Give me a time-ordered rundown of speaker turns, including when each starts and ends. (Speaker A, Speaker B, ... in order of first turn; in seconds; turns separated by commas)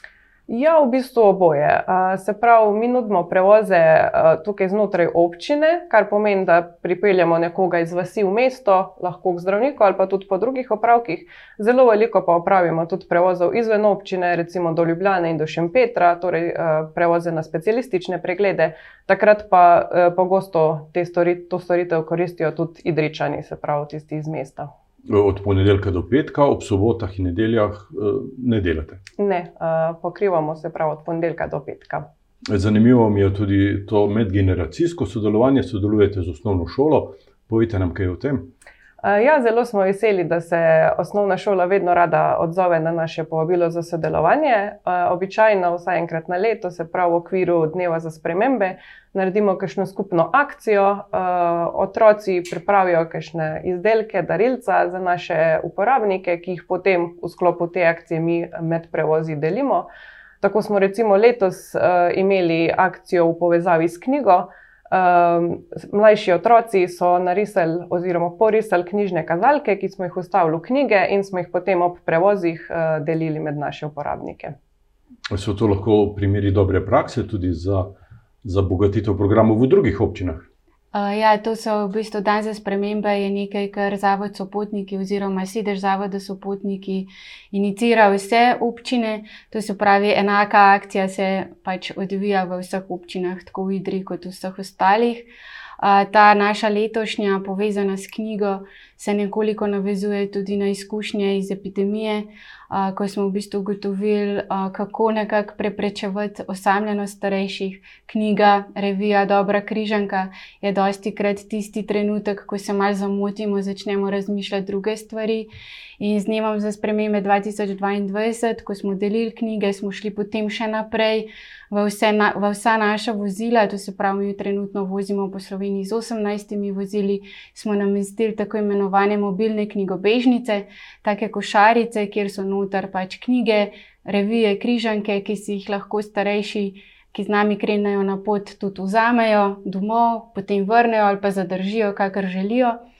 Speaker A: 0.5-24.7, Speaker B: 25.1-29.0, Speaker A: 29.2-32.0, Speaker B: 32.5-38.5, Speaker A: 39.0-59.9, Speaker A: 60.4-74.5, Speaker B: 75.3-77.9, Speaker B: 78.4-80.5, Speaker C: 80.9-95.2, Speaker C: 95.8-115.5, Speaker C: 116.0-142.8